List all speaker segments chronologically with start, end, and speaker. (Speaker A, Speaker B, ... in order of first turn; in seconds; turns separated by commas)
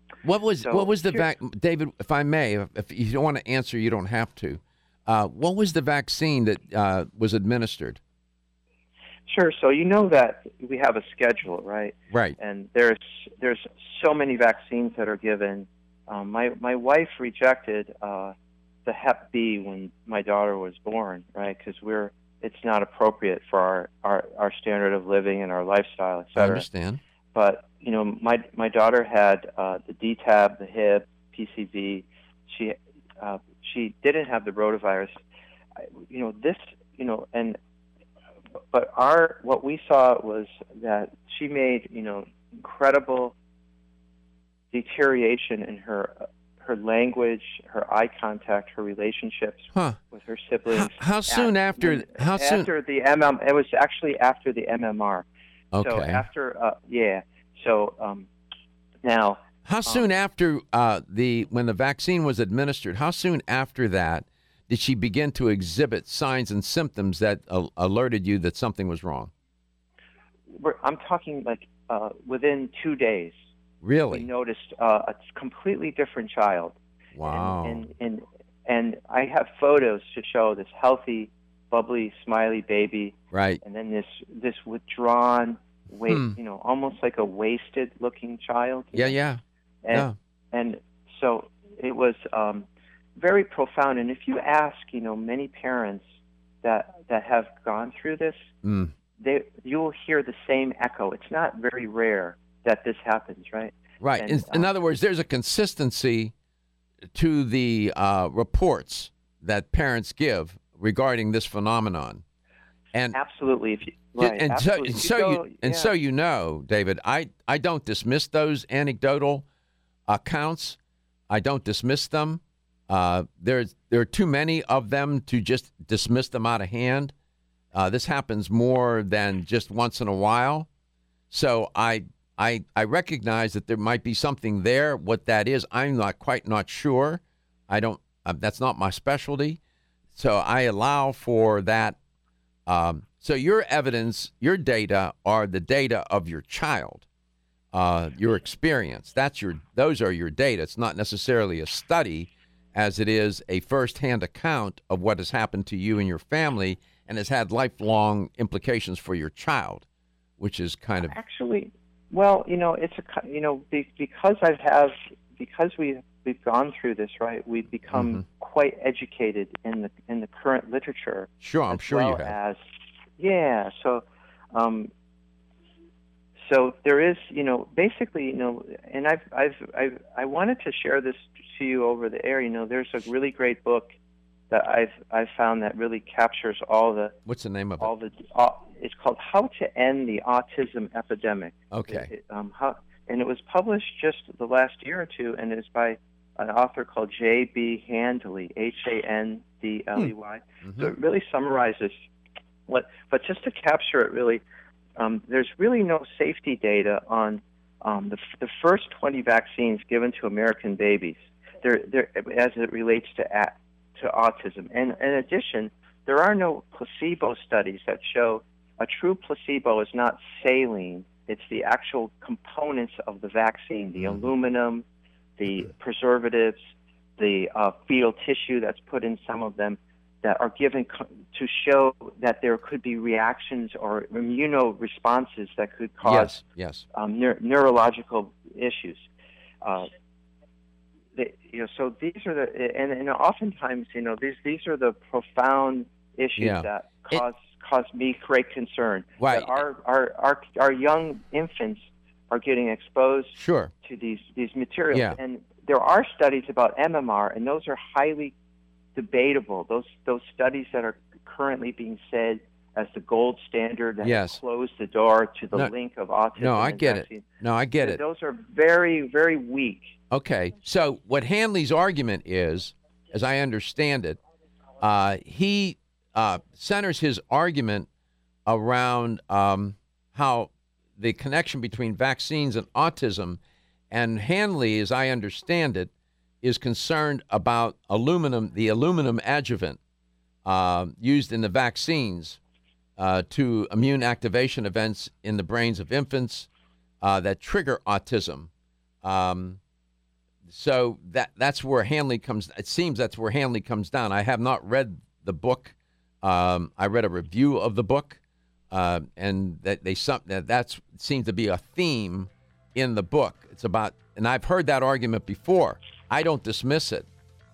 Speaker A: 0.2-8.0, Speaker B: 0.7-1.2, Speaker B: 9.3-18.3, Speaker A: 12.1-12.4, Speaker B: 18.9-26.7, Speaker A: 26.4-27.0, Speaker B: 27.3-35.2, Speaker B: 36.1-37.6, Speaker B: 38.7-43.3, Speaker B: 44.7-55.2, Speaker A: 49.7-50.0, Speaker A: 50.7-52.7, Speaker A: 55.7-56.2, Speaker B: 55.8-58.3, Speaker B: 59.0-60.1, Speaker A: 59.6-69.3, Speaker B: 70.5-73.4, Speaker A: 73.8-74.3, Speaker B: 74.1-89.2, Speaker A: 77.2-77.8, Speaker A: 83.3-83.6, Speaker A: 86.1-86.4, Speaker A: 88.9-89.4, Speaker B: 89.8-96.0, Speaker B: 96.6-98.5, Speaker A: 98.6-98.9, Speaker B: 99.2-104.7, Speaker A: 104.0-106.3, Speaker A: 107.1-112.2, Speaker B: 113.1-115.9, Speaker A: 114.2-119.5, Speaker A: 120.1-120.8, Speaker A: 121.3-127.1, Speaker A: 127.7-130.7, Speaker A: 131.3-139.6, Speaker A: 140.2-142.0, Speaker A: 142.7-147.1, Speaker A: 147.7-159.8, Speaker A: 160.4-161.2, Speaker B: 161.0-172.6, Speaker A: 167.9-168.2, Speaker A: 171.4-172.3, Speaker B: 173.2-174.9, Speaker B: 176.5-183.9, Speaker B: 184.5-187.1, Speaker A: 187.3-187.9, Speaker B: 187.8-201.9, Speaker A: 191.7-192.1, Speaker A: 200.6-200.9, Speaker B: 202.7-204.4, Speaker B: 205.0-224.8, Speaker A: 224.0-224.3, Speaker B: 225.4-226.6, Speaker B: 227.2-236.4, Speaker A: 236.0-236.8, Speaker B: 236.9-239.1, Speaker B: 239.6-239.9, Speaker B: 241.2-258.3, Speaker A: 246.4-247.2, Speaker A: 249.2-249.6, Speaker A: 253.3-253.7, Speaker A: 254.9-255.2, Speaker B: 258.9-267.2, Speaker A: 264.0-264.4, Speaker A: 266.4-268.0, Speaker B: 267.8-269.9, Speaker A: 270.1-274.2, Speaker A: 274.8-277.9, Speaker A: 278.5-289.8, Speaker A: 290.4-292.4, Speaker A: 293.0-296.5, Speaker A: 297.0-298.5, Speaker A: 299.0-299.6, Speaker A: 300.5-308.2, Speaker A: 308.7-317.1